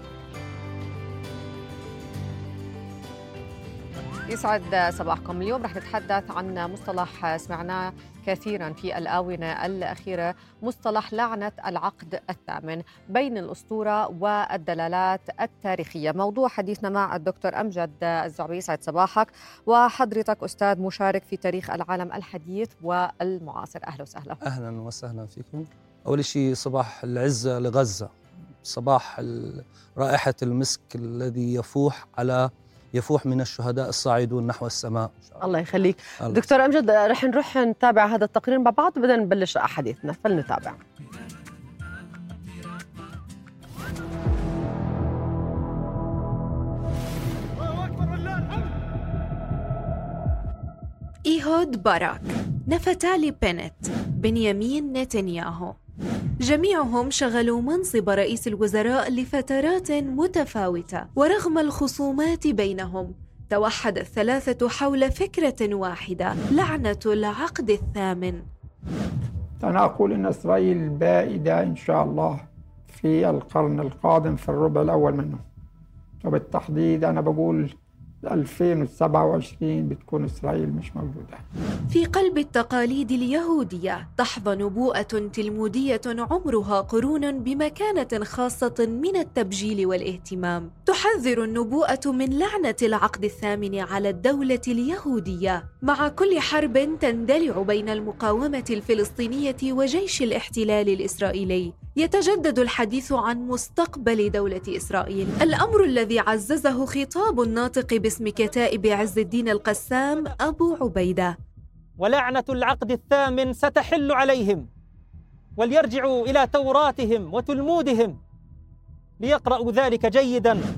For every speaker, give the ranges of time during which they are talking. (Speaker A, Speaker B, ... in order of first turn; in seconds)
Speaker A: 4.3-24.4
Speaker B: 24.4-28.1, 28.6-35.4
Speaker C: 35.4-40.8
Speaker D: 51.2-55.7, 56.4-68.4, 81.9-111.3
Speaker E: 69.6-75.4, 76.2-81.4
Speaker F: 112.0-114.7, 115.6-118.2, 119.2-120.6